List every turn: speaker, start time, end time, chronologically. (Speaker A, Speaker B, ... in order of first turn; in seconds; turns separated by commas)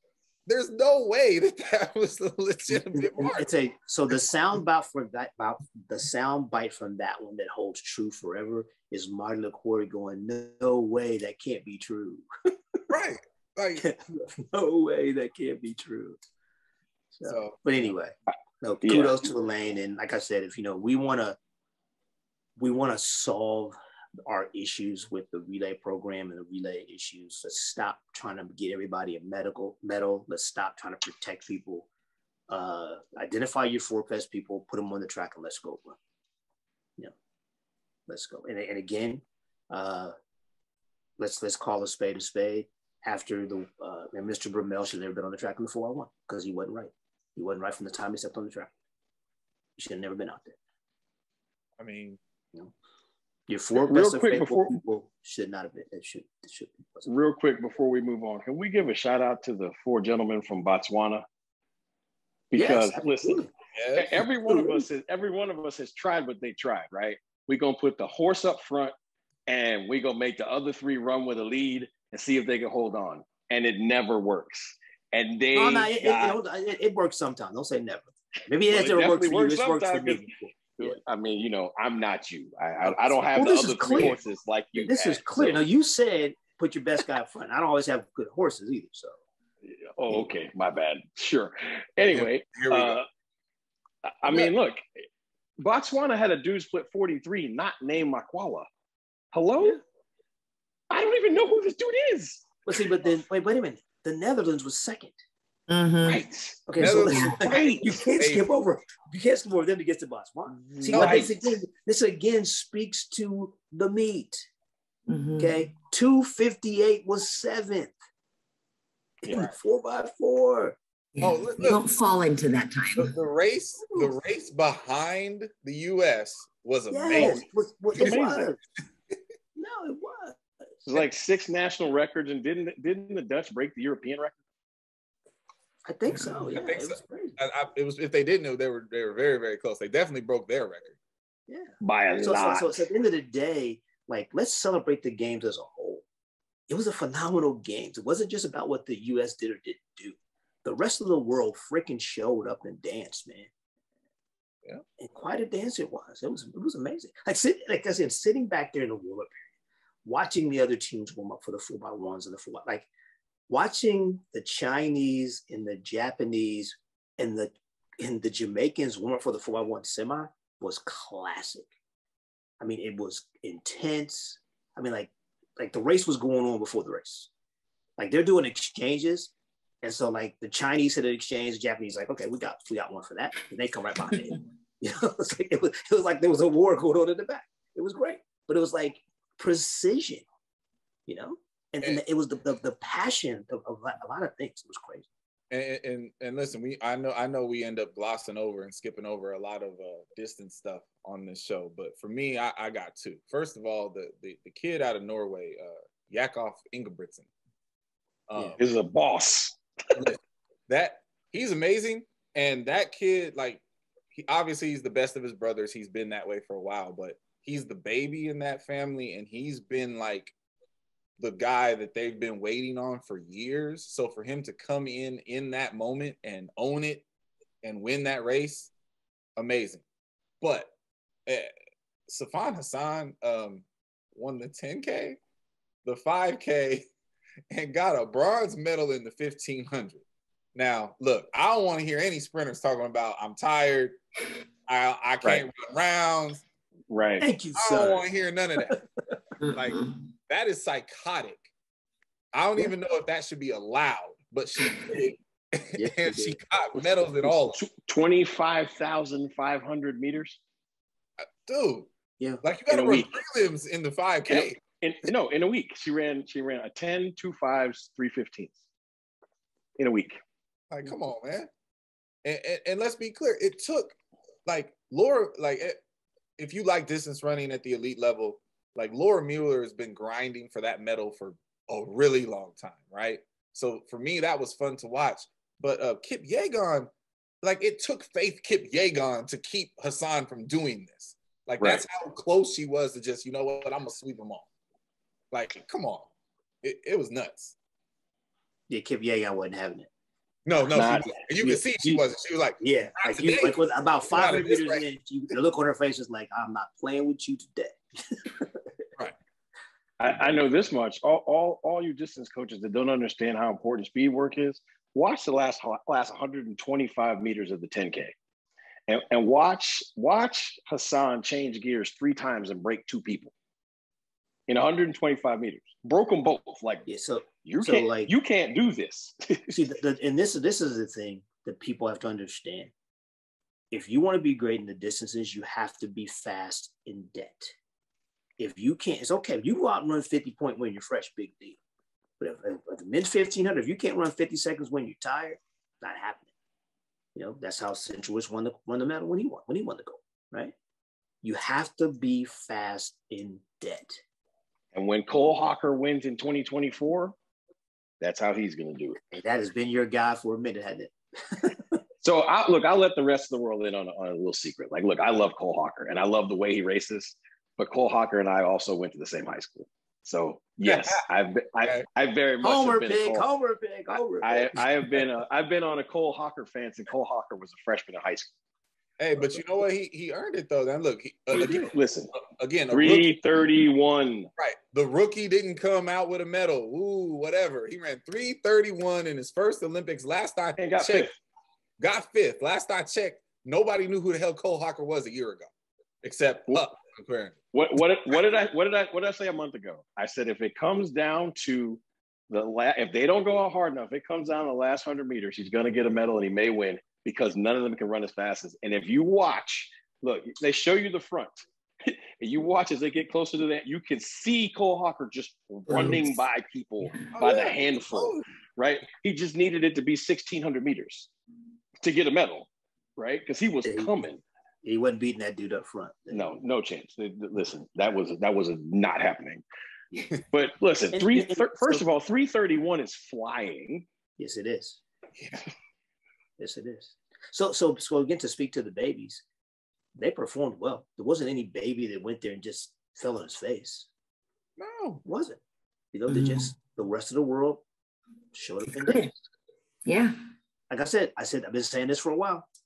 Speaker A: 0.5-3.5, Speaker B: 2.7-12.8, Speaker A: 12.9-13.9, Speaker B: 13.8-16.2, Speaker B: 17.1-21.4, Speaker A: 17.3-17.6, Speaker C: 18.8-19.2, Speaker B: 22.6-31.9, Speaker B: 32.5-36.0, Speaker B: 38.1-40.1, Speaker B: 41.2-48.7, Speaker B: 49.8-50.6, Speaker A: 51.8-52.2, Speaker B: 53.5-57.1, Speaker C: 53.8-54.8, Speaker C: 57.1-61.2, Speaker C: 62.5-68.9, Speaker B: 62.5-63.5, Speaker A: 63.7-64.2, Speaker B: 64.5-64.8, Speaker C: 69.5-76.4, Speaker B: 75.5-81.0, Speaker C: 78.7-85.6, Speaker B: 82.8-84.2, Speaker B: 84.8-89.2, Speaker C: 89.6-93.0, Speaker A: 92.0-93.0, Speaker C: 94.0-95.0, Speaker C: 95.6-98.7, Speaker C: 99.3-99.8, Speaker C: 100.9-102.5, Speaker B: 102.7-105.2, Speaker D: 105.7-106.2, Speaker C: 106.1-106.6, Speaker B: 106.7-114.5, Speaker A: 106.8-108.5, Speaker D: 107.0-107.4, Speaker D: 110.6-111.1, Speaker A: 110.9-111.3, Speaker C: 110.9-111.3, Speaker D: 115.1-115.6, Speaker B: 115.4-117.9, Speaker B: 119.2-120.8, Speaker D: 121.1-123.1, Speaker A: 121.2-121.8, Speaker A: 123.0-127.4, Speaker B: 123.9-124.1, Speaker B: 126.9-128.6, Speaker C: 127.1-127.4, Speaker C: 127.9-128.5, Speaker A: 128.0-128.4, Speaker B: 129.6-130.9, Speaker C: 130.9-134.3, Speaker B: 135.9-137.4, Speaker A: 136.5-141.0, Speaker B: 141.5-146.1, Speaker C: 141.8-142.7, Speaker B: 146.7-153.5, Speaker B: 155.0-159.5, Speaker B: 160.0-162.9, Speaker B: 163.5-171.7, Speaker B: 172.6-177.3, Speaker B: 178.0-190.2, Speaker B: 191.1-195.1, Speaker A: 195.5-207.3, Speaker A: 208.3-208.6, Speaker C: 208.6-209.6, Speaker A: 209.9-213.6, Speaker A: 214.1-220.3, Speaker A: 221.2-227.0, Speaker A: 227.6-228.7, Speaker A: 229.4-229.8, Speaker A: 230.4-230.7, Speaker A: 231.3-231.5, Speaker A: 232.1-235.2, Speaker A: 235.8-236.8, Speaker A: 237.5-240.0, Speaker A: 240.6-244.0, Speaker A: 244.7-246.4, Speaker C: 246.9-247.3, Speaker B: 247.2-248.1, Speaker A: 247.6-248.8, Speaker D: 249.4-250.0, Speaker A: 249.5-251.4, Speaker A: 252.3-257.6, Speaker B: 255.8-256.4, Speaker C: 257.5-260.4, Speaker A: 261.4-261.9, Speaker A: 262.4-264.6, Speaker C: 262.7-263.1, Speaker C: 264.3-268.6, Speaker C: 269.8-270.2, Speaker A: 270.7-271.5, Speaker A: 272.2-275.8, Speaker A: 276.4-286.9, Speaker A: 287.4-294.5, Speaker A: 295.3-296.1, Speaker A: 296.6-297.5, Speaker B: 298.7-299.9, Speaker A: 300.4-303.6, Speaker C: 300.7-301.1, Speaker B: 300.8-302.0, Speaker B: 302.6-308.6, Speaker A: 304.1-304.8, Speaker C: 310.0-318.1, Speaker C: 318.9-323.3, Speaker C: 324.5-326.9, Speaker B: 326.9-328.1, Speaker C: 327.4-329.5, Speaker B: 329.5-332.7, Speaker B: 333.7-337.5, Speaker B: 338.4-341.6, Speaker B: 342.2-346.3, Speaker B: 347.1-350.6, Speaker B: 351.2-354.0, Speaker C: 354.7-357.1, Speaker C: 358.0-359.0, Speaker B: 359.1-361.8, Speaker C: 362.0-373.3, Speaker A: 370.6-371.0, Speaker B: 372.4-374.6, Speaker C: 374.2-378.3, Speaker A: 379.0-381.7, Speaker C: 381.3-382.1, Speaker A: 382.2-383.1, Speaker C: 382.7-384.3, Speaker A: 384.4-391.1, Speaker C: 390.6-391.1, Speaker A: 391.8-395.5, Speaker A: 396.0-397.4, Speaker C: 397.5-421.1, Speaker B: 415.7-416.1, Speaker D: 416.8-417.1, Speaker A: 417.1-418.2, Speaker C: 421.8-424.2, Speaker B: 423.6-423.9, Speaker B: 424.6-426.3, Speaker C: 426.1-429.4, Speaker C: 430.3-433.9, Speaker B: 430.9-431.9, Speaker B: 434.2-434.8, Speaker A: 435.2-435.4, Speaker B: 436.4-439.2, Speaker B: 439.9-443.9, Speaker A: 444.6-445.0, Speaker B: 445.1-445.4, Speaker B: 445.9-447.6, Speaker D: 446.1-446.5, Speaker B: 448.3-449.2, Speaker D: 448.8-449.1, Speaker D: 449.9-450.2, Speaker B: 450.7-452.5